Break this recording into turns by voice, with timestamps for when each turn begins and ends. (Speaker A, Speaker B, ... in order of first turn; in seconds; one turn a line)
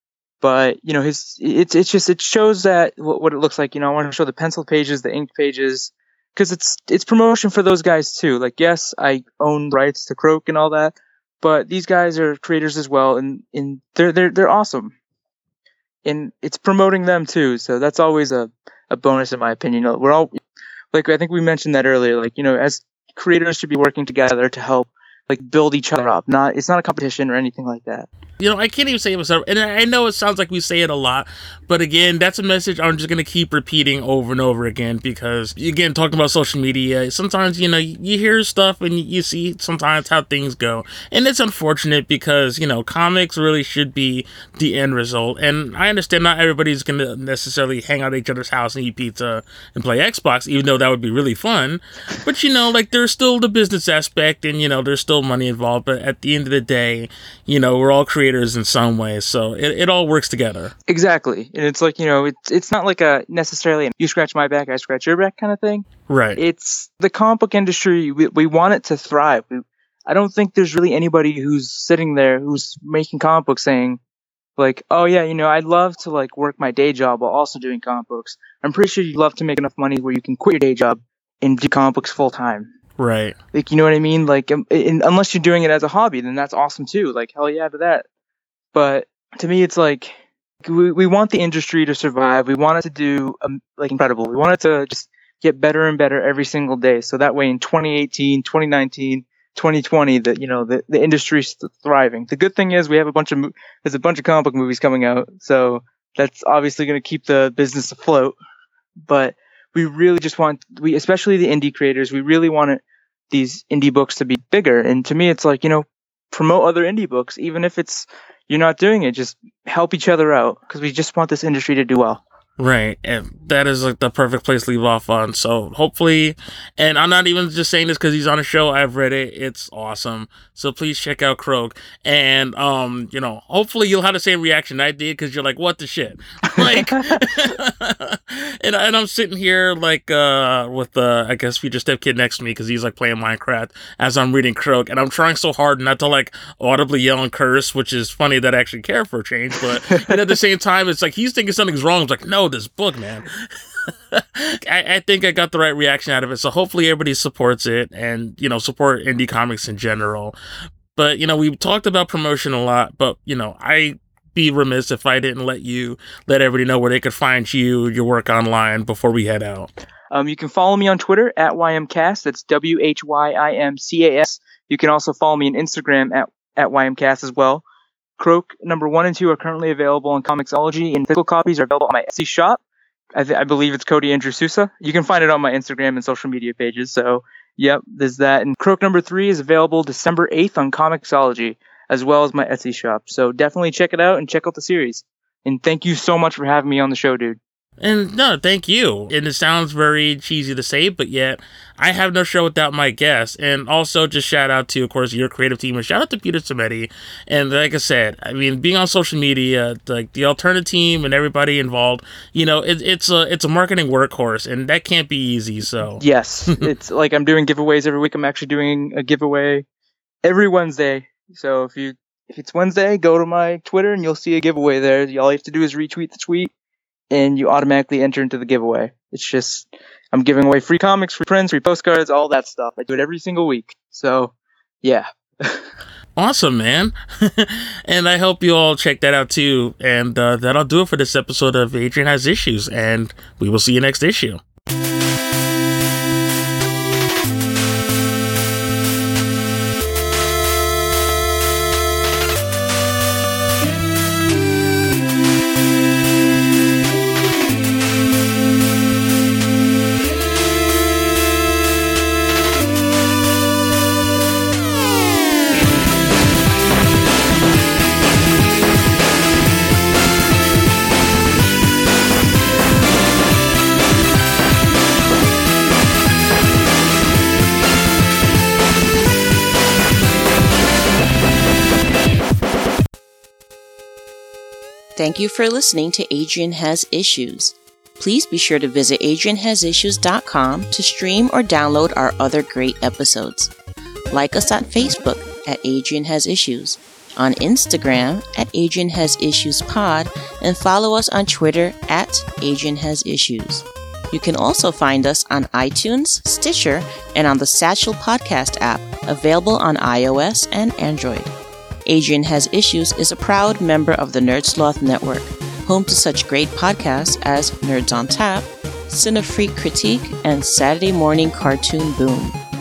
Speaker A: 0.4-14.9
Speaker A: 16.0-20.4
Speaker A: 20.9-28.1
Speaker B: 28.4-60.7
Speaker A: 60.9-74.0
Speaker B: 66.1-66.4
Speaker A: 74.6-82.7
Speaker B: 83.0-83.3
Speaker A: 83.5-88.0
Speaker A: 88.7-108.3
Speaker A: 109.0-122.2
Speaker B: 122.6-160.3
Speaker A: 136.5-137.0
Speaker B: 160.9-169.7
Speaker A: 170.1-177.6
Speaker A: 178.2-182.6
Speaker A: 183.1-197.4
Speaker B: 197.8-216.0
Speaker A: 216.0-219.6
Speaker A: 220.2-226.5
Speaker A: 227.1-235.7
Speaker B: 236.2-244.4
Speaker C: 285.0-293.5
Speaker C: 294.1-311.3
Speaker C: 311.9-322.4